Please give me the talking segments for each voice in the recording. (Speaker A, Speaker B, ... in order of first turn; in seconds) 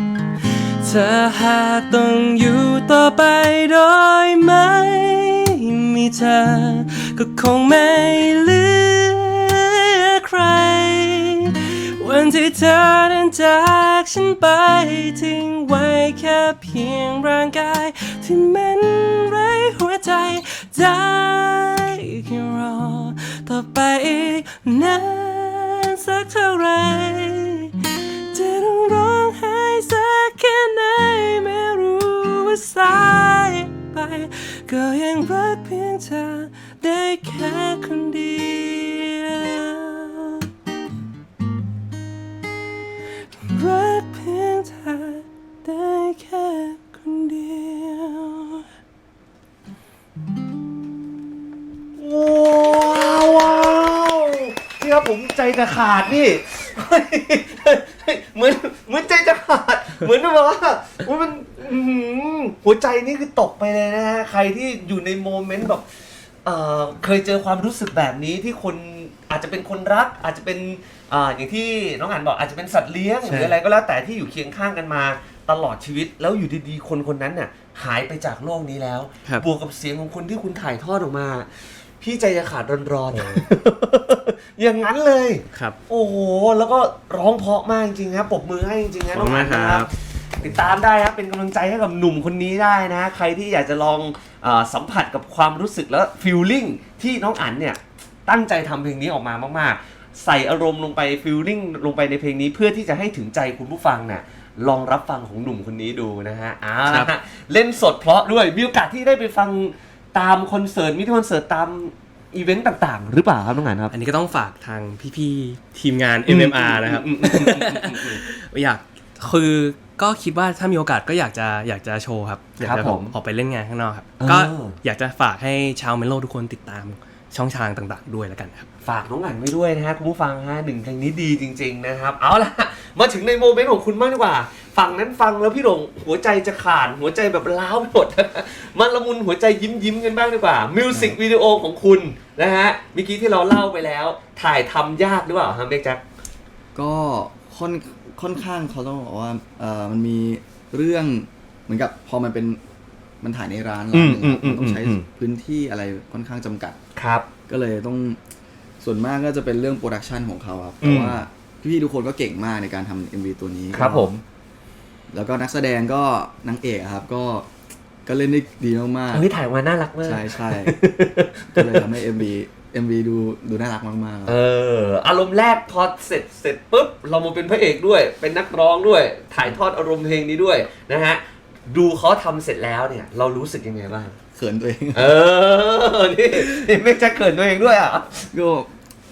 Speaker A: 0.8-40.5, 43.4-48.6, 73.2-73.5, 83.1-83.5, 89.1-89.9, 113.9-128.7
Speaker B: 52.0-65.8, 66.4-113.9, 116.3-118.2, 122.6-123.1, 124.2-124.8, 128.8-146.0, 153.9-155.1, 156.9-157.3, 160.8-161.2, 163.7-164.1, 169.1-171.9, 174.2-184.2, 184.9-188.3
Speaker C: 140.9-141.2, 146.7-152.6, 153.2-156.8, 157.5-158.2, 158.8-164.2, 165.1-167.5, 168.0-169.2, 170.0-170.8, 171.5-174.4, 184.3-185.2, 188.3-188.7